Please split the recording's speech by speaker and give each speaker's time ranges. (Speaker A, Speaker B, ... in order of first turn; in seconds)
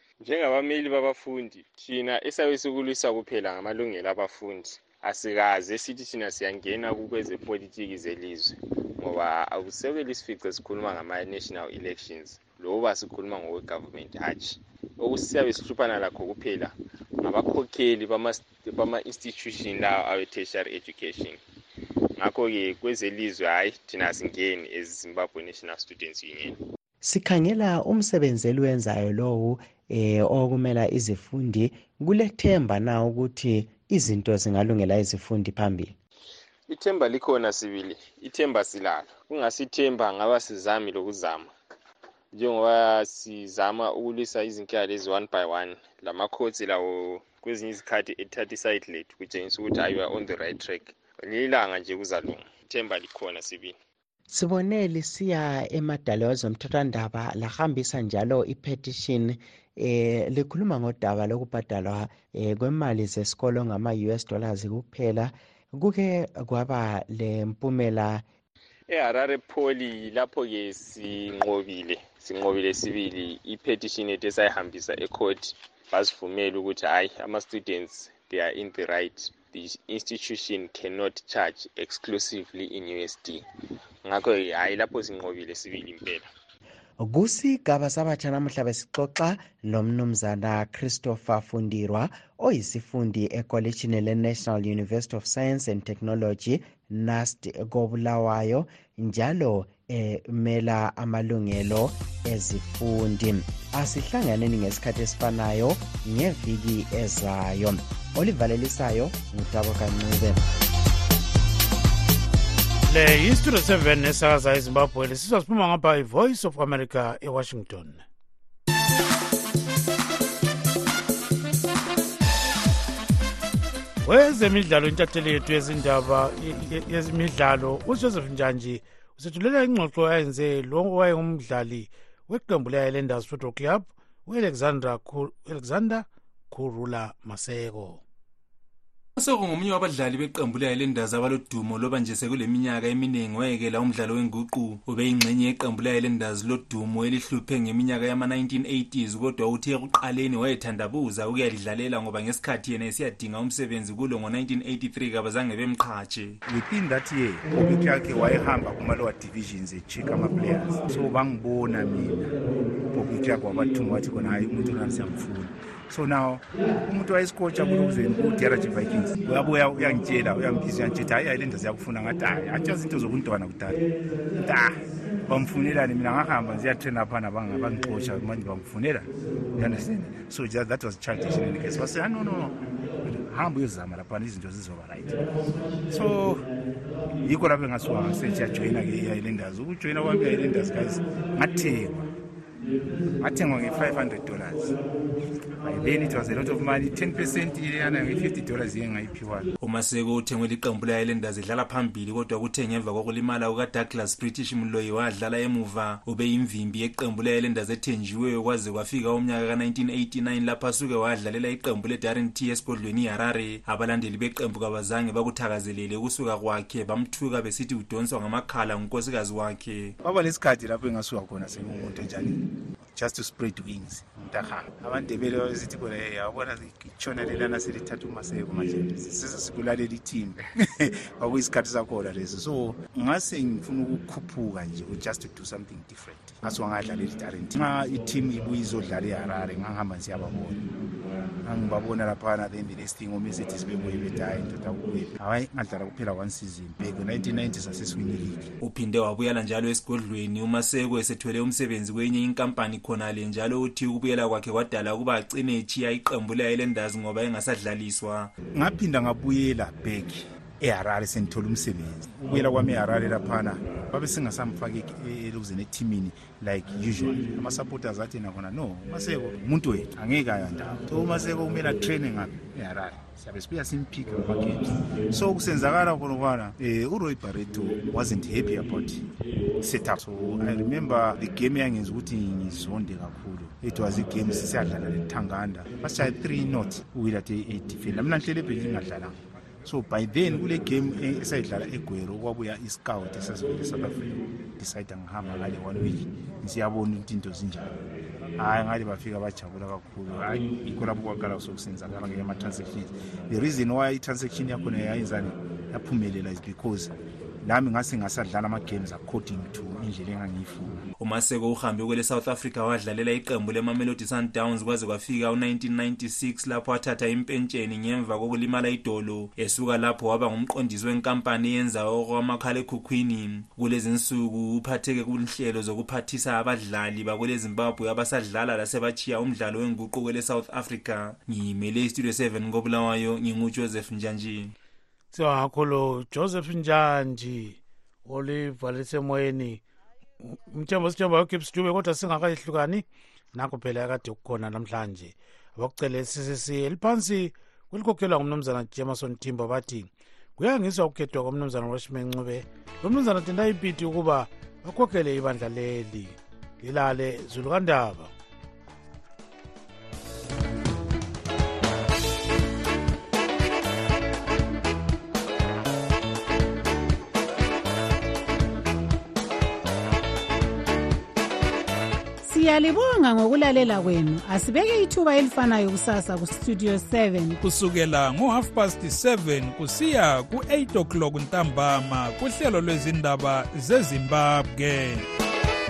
Speaker A: 0.2-21.4, 22.2-26.6, 36.7-41.5, 42.3-53.8, 68.9-83.4, 84.0-86.3
Speaker B: 27.0-36.0, 54.3-68.2, 87.0-110.5
Speaker C: 112.9-118.0, 124.0-138.0, 335.1-339.6, 340.2-358.1
Speaker D: 139.2-156.4, 199.6-219.9, 248.6-258.3, 311.0-334.5
Speaker E: 156.5-162.4, 162.9-173.8, 174.3-185.2, 185.9-186.5, 187.2-192.1, 193.2-194.7, 195.6-199.5, 220.0-222.4, 222.9-240.6, 241.4-248.5, 258.6-279.1, 279.6-297.7, 298.4-306.9, 307.4-310.8
Speaker F: 372.2-377.4
Speaker G: 377.4-385.1